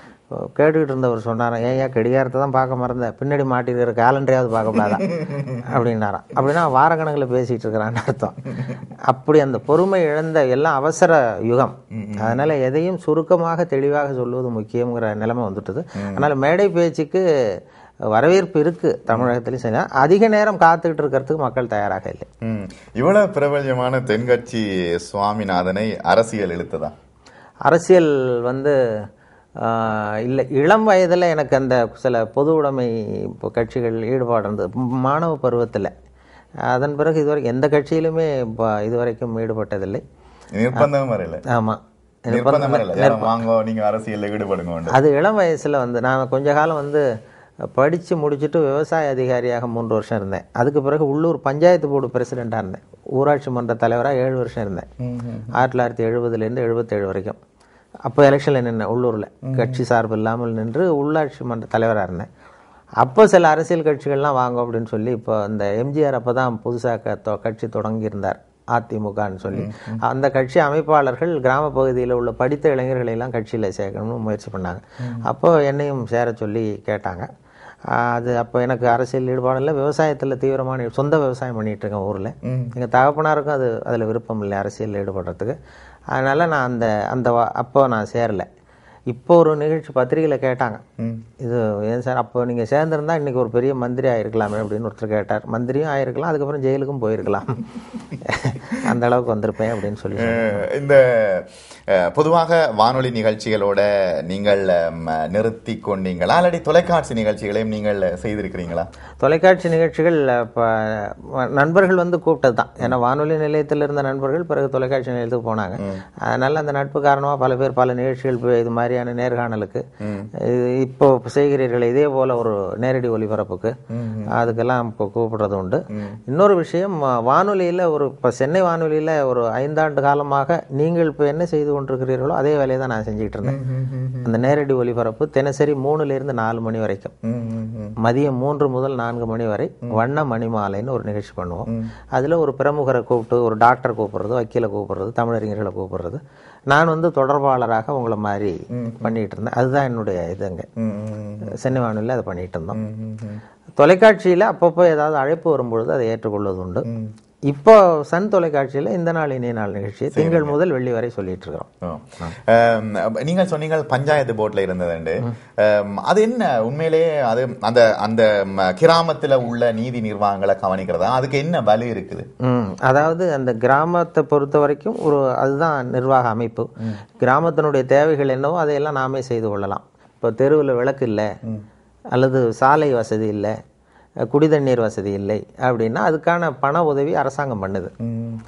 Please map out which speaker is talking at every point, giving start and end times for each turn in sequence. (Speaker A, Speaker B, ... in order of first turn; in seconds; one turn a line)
Speaker A: 0.3-5.0
Speaker B: 4.9-5.6
Speaker A: 5.6-8.4
Speaker A: 9.1-17.2
Speaker B: 11.9-12.4
Speaker B: 16.0-16.3
Speaker A: 18.1-22.3
Speaker B: 22.4-26.9
Speaker A: 27.6-28.8
Speaker A: 29.6-35.9
Speaker A: 36.6-40.0
Speaker B: 40.5-41.4
Speaker A: 41.5-43.4
Speaker B: 42.3-45.0
Speaker A: 44.9-47.0
Speaker A: 47.7-54.9
Speaker B: 55.0-55.5
Speaker A: 55.5-57.4
Speaker A: 58.0-62.3
Speaker B: 59.4-59.8
Speaker A: 63.0-77.3
Speaker B: 69.5-70.0
Speaker B: 75.0-75.2
Speaker A: 77.9-85.6
Speaker B: 82.4-82.7
Speaker A: 86.1-88.5
Speaker A: 89.1-90.8
Speaker B: 91.0-91.2
Speaker A: 91.4-97.6
Speaker A: 98.2-100.6
Speaker B: 100.2-108.9
Speaker A: 109.2-119.8
Speaker B: 115.8-116.0
Speaker B: 120.0-120.3
Speaker A: 120.4-123.8
Speaker B: 123.9-124.3
Speaker A: 124.3-133.6
Speaker B: 125.9-126.2
Speaker B: 133.4-134.3
Speaker A: 134.2-137.1
Speaker B: 137.2-137.9
Speaker A: 138.0-150.7
Speaker B: 148.7-149.1
Speaker B: 150.8-151.5
Speaker A: 151.5-152.8
Speaker B: 152.7-153.4
Speaker A: 153.8-156.8
Speaker B: 156.8-157.1
Speaker A: 157.5-161.7
Speaker B: 160.1-160.5
Speaker B: 161.8-172.3
Speaker A: 172.4-181.3
Speaker A: 182.1-183.6
Speaker A: 184.2-187.9
Speaker B: 188.0-188.4